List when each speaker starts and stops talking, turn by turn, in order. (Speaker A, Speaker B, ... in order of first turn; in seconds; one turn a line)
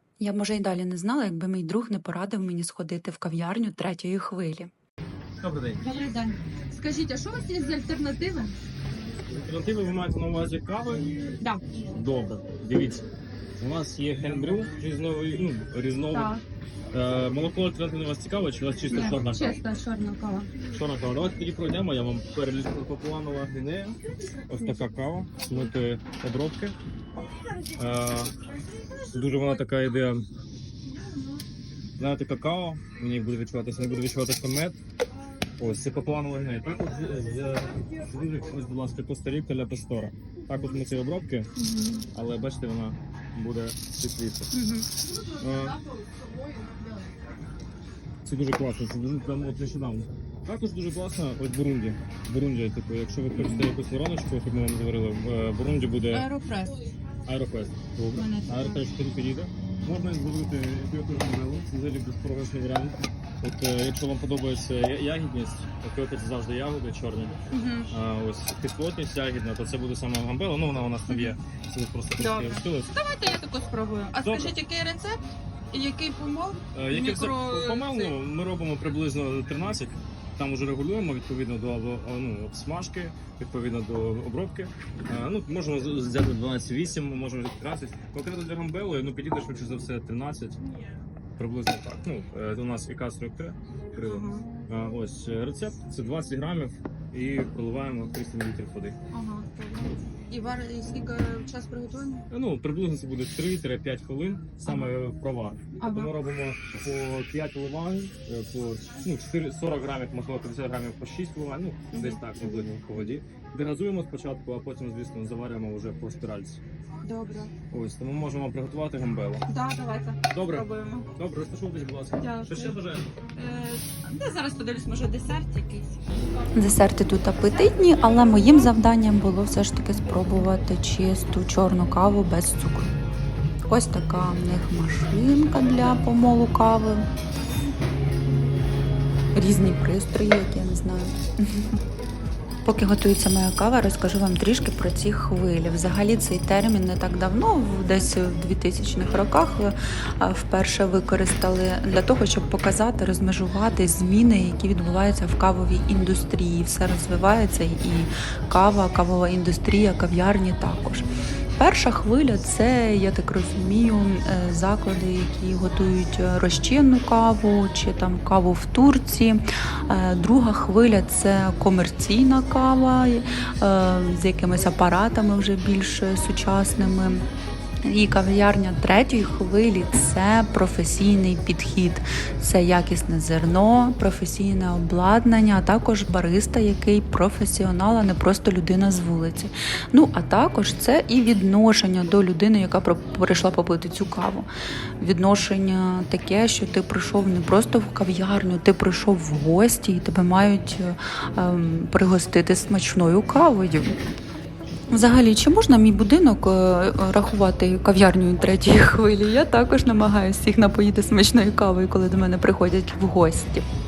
Speaker A: 0.2-4.7
Speaker B: 5.4-5.8
Speaker C: 5.8-8.6
Speaker B: 9.3-11.1
Speaker B: 11.9-13.0
Speaker B: 13.6-16.3
Speaker C: 16.1-16.4
Speaker B: 16.9-19.6
Speaker C: 18.9-20.5
Speaker B: 20.7-24.0
Speaker B: 24.5-26.7
Speaker B: 27.7-28.3
Speaker B: 29.1-30.2
Speaker B: 32.0-34.8
Speaker B: 35.6-41.5
Speaker C: 41.6-42.0
Speaker B: 42.1-44.5
Speaker C: 44.6-44.9
Speaker B: 45.4-45.8
Speaker B: 48.2-56.3
Speaker C: 53.4-53.7
Speaker C: 56.1-56.8
Speaker B: 57.2-67.4
Speaker C: 58.1-58.8
Speaker C: 67.5-67.9
Speaker B: 67.9-72.9
Speaker C: 71.1-71.4
Speaker C: 72.2-78.1
Speaker B: 74.2-74.5
Speaker B: 76.7-90.6
Speaker B: 91.4-99.0
Speaker C: 94.0-94.5
Speaker C: 99.1-102.2
Speaker B: 102.3-116.6
Speaker C: 105.8-106.1
Speaker C: 111.9-112.7
Speaker C: 117.0-117.5
Speaker B: 117.7-119.5
Speaker C: 119.5-121.1
Speaker B: 120.3-123.1
Speaker C: 122.2-122.8
Speaker C: 123.3-126.0
Speaker A: 126.5-132.9
Speaker A: 133.7-137.1
Speaker A: 139.3-141.7
Speaker A: 142.6-161.1
Speaker A: 161.6-177.2
Speaker A: 177.8-194.5
Speaker A: 195.0-203.9
Speaker A: 204.9-213.6